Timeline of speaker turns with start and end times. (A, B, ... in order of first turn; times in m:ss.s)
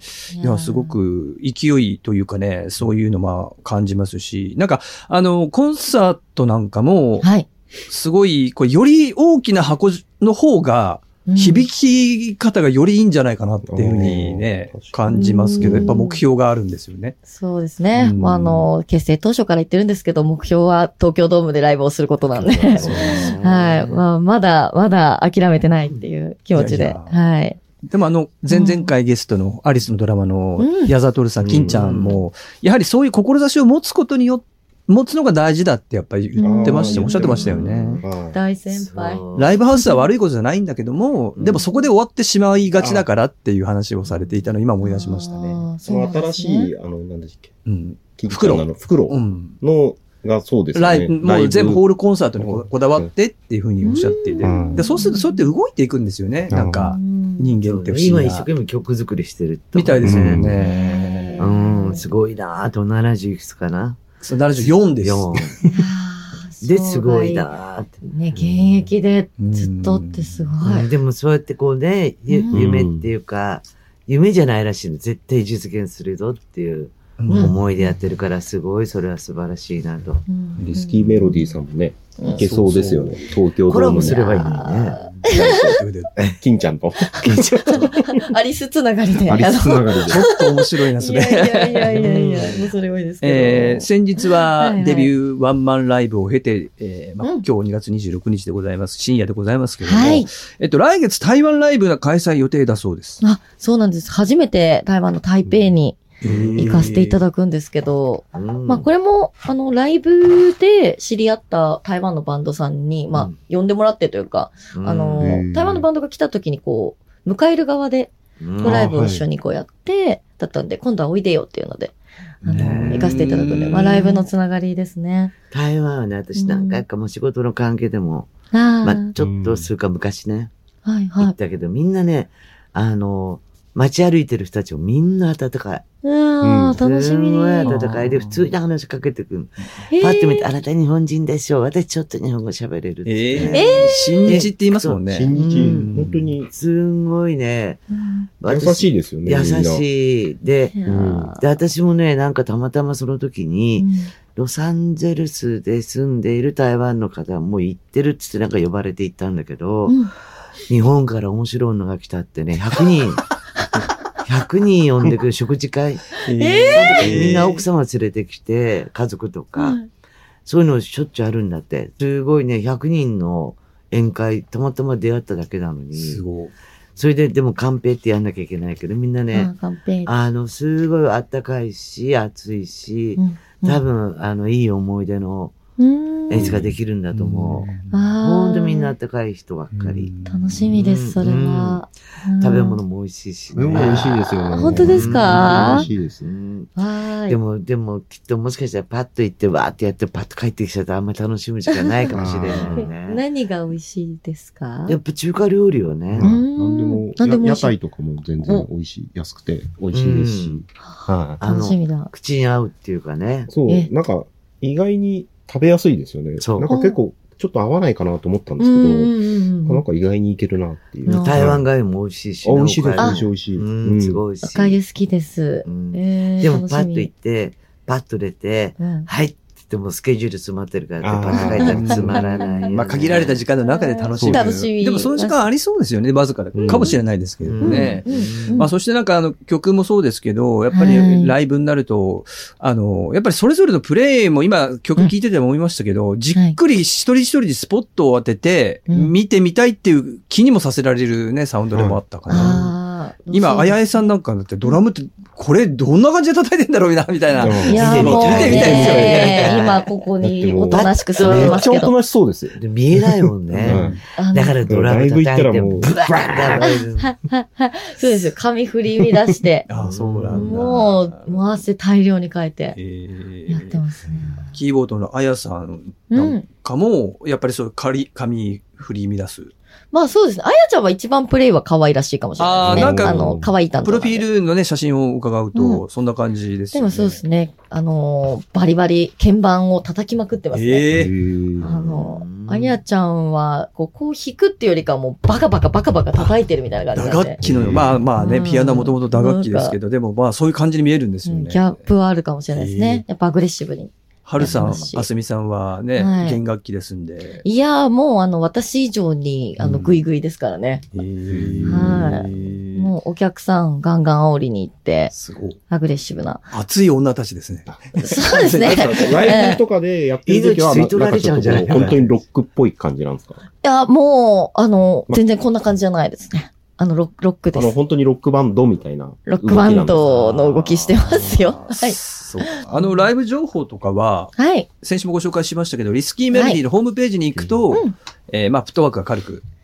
0:00.3-0:01.0 A
0:00.4-0:07.3 B
0:07.2-0:07.5 A
0:07.8-0:17.2 B
0:11.2-0:11.7 A
0:13.6-0:15.9 C
0:15.1-0:16.2 A
0:17.3-0:27.6 A
0:17.9-0:18.7 B
0:22.3-0:23.3 C
0:22.8-0:24.1 D
0:22.8-0:23.3 B
0:26.5-0:27.3 B
0:27.8-0:38.0 B
0:28.5-0:28.9 A
0:30.6-0:30.9 A
0:31.4-0:31.9 C
0:31.4-0:32.2 D
0:36.4-0:37.3 A
0:36.4-0:38.4 C
0:37.2-0:38.0 D
0:38.3-0:40.1 A
0:38.7-0:39.6 D
0:39.4-0:45.6 B
0:41.4-0:41.7 D
0:42.7-0:43.1 C
0:44.1-0:44.4 D
0:44.8-0:46.7 A
0:45.8-0:47.5 C
0:47.6-0:49.6 B
0:48.2-0:53.1 C
0:50.7-0:58.5 B
0:53.8-0:55.5 A
0:54.4-0:54.9 C
0:56.5-0:56.9 C
0:56.7-0:57.6 A
0:57.6-1:00.5 D
0:59.7-1:01.5 B
1:00.0-1:00.6 C
1:00.6-1:02.0 A
1:01.4-1:04.0 D
1:04.2-1:05.4 B
1:04.6-1:05.6 D
1:05.7-1:10.9 A
1:06.6-1:08.9 D
1:09.4-1:10.6 B
1:10.6-1:20.2 D
1:12.3-1:12.6 A
1:12.5-1:13.1 C
1:17.2-1:17.5 B
1:17.3-1:18.0 A
1:20.3-1:21.6 A
1:20.6-1:21.2 B
1:20.6-1:28.2 C
1:22.2-1:22.5 A
1:22.2-1:23.3 B
1:23.7-1:25.0 D
1:23.9-1:25.8 A
1:24.9-1:26.1 B
1:27.2-1:28.0 D
1:27.9-1:35.1 A
1:29.2-1:30.2 C
1:30.0-1:32.4 B
1:31.9-1:32.7 D
1:33.2-1:43.2 B
1:37.2-1:37.4 A
1:39.8-1:40.3 A
1:43.2-1:46.0 A
1:45.4-1:45.7 C
1:46.2-1:47.2 B
1:46.2-1:46.9 D
1:46.6-2:05.3 A
1:48.3-1:48.9 D
1:54.7-1:55.3 D
1:55.2-1:55.9 C
1:58.4-1:58.9 D
1:58.6-1:59.2 C
2:02.4-2:03.8 C
2:02.5-2:03.1 D
2:02.6-2:04.2 B
2:05.5-2:08.3 D
2:06.3-2:06.8 A
2:08.5-2:09.1 A
2:08.8-2:10.5 D
2:09.2-2:09.7 C
2:10.8-2:11.3 A
2:11.2-2:15.8 D
2:16.0-2:17.8 A
2:16.4-2:16.8 C
2:16.7-2:25.9 D
2:17.6-2:18.5 B
2:19.8-2:20.5 A
2:23.0-2:26.4 B
2:23.5-2:24.4 A
2:25.0-2:26.5 C
2:26.5-2:27.8 D
2:27.9-2:28.3 A
2:28.4-2:40.0 D
2:28.4-2:29.8 C
2:30.7-2:31.4 A
2:30.8-2:31.4 C
2:33.8-2:34.1 A
2:40.7-2:43.3 D
2:44.2-2:46.2 D
2:46.2-2:47.6 B
2:46.3-2:47.1 A
2:46.7-2:49.8 D
2:47.0-2:47.4 C
2:49.6-2:49.9 A
2:50.4-2:56.2 D
2:55.9-2:56.5 B
2:57.0-2:59.5 D
2:59.3-3:00.1 A
3:00.0-3:05.5 D
3:03.2-3:03.8 A
3:05.8-3:06.5 A
3:06.3-3:07.7 D
3:06.4-3:06.7 C
3:06.4-3:08.1 B
3:07.9-3:08.9 A
3:08.2-3:10.1 D
3:09.7-3:10.8 B
3:10.2-3:12.8 A
3:10.7-3:11.9 D
3:12.4-3:16.7 D
3:13.5-3:16.3 C
3:14.5-3:15.9 A
3:16.8-3:17.4 A
3:17.3-3:23.2 D
3:21.7-3:25.0 A
3:22.1-3:22.8 C
3:24.9-3:26.3 D
3:26.1-3:31.4 C
3:26.2-3:27.7 A
3:29.9-3:30.6 D
3:30.9-3:32.1 A
3:31.4-3:33.5 D
3:33.5-3:41.7 C
3:36.4-3:36.7 D
3:36.7-3:37.0 A
3:38.6-3:39.8 A
3:41.0-3:41.5 A
3:41.1-3:44.8 D
3:42.4-3:44.2 C
3:44.4-3:47.1 A
3:45.6-3:53.4 D
3:48.8-3:49.1 A
3:51.0-3:52.2 C
3:51.3-3:52.7 A
3:51.6-4:12.6 B
3:53.7-3:55.4 A
3:54.1-3:54.7 C
3:56.5-3:57.0 C
3:57.4-3:58.6 D
3:57.6-3:58.7 A
4:00.7-4:01.3 A
4:11.7-4:12.7 C
4:12.3-4:14.8 A
4:13.3-4:19.5 B
4:17.4-4:19.3 C
4:17.5-4:21.9 A
4:17.7-4:19.9 D
4:20.2-4:24.0 C
4:20.7-4:21.7 D
4:22.6-4:27.1 D
4:23.5-4:24.0 B
4:24.2-4:24.6 A
4:24.6-4:26.7 C
4:26.6-4:29.7 A
4:29.7-4:31.4 B
4:29.7-4:30.8 D
4:30.3-4:32.8 A
4:32.7-4:33.8 B
4:33.5-4:34.5 A
4:34.5-4:39.5 B
4:36.1-4:36.4 A
4:39.9-4:44.2 A
4:42.4-4:43.3 B
4:42.6-4:43.5 C
4:43.8-4:47.2 B
4:45.5-4:45.8 A
4:46.7-4:50.9 A
4:50.5-4:51.1 B
4:50.9-4:51.9 C
4:51.6-4:52.8 D
4:51.6-4:57.4 A
4:56.9-5:01.8 B
4:57.4-4:58.0 C
4:58.2-4:59.8 A
5:01.2-5:05.1 A
5:02.5-5:03.0 B
5:04.2-5:07.4 B
5:04.4-5:05.0 D
5:06.0-5:06.4 A
5:07.4-5:10.8 A
5:09.6-5:10.0 B
5:10.9-5:12.9 B
5:11.3-5:12.3 C
5:11.6-5:15.1 A
5:15.1-5:15.6 B
5:15.7-5:16.5 A
5:16.5-5:19.5 B
5:17.7-5:23.4 C
5:18.0-5:19.6 A
5:20.2-5:22.0 D
5:21.7-5:22.0 B
5:23.6-5:27.8 A
5:27.5-5:30.2 C
5:29.3-5:33.0 A
5:29.9-5:39.4 B
5:34.4-5:34.7 A
5:36.3-5:36.6 A
5:37.4-5:37.7 C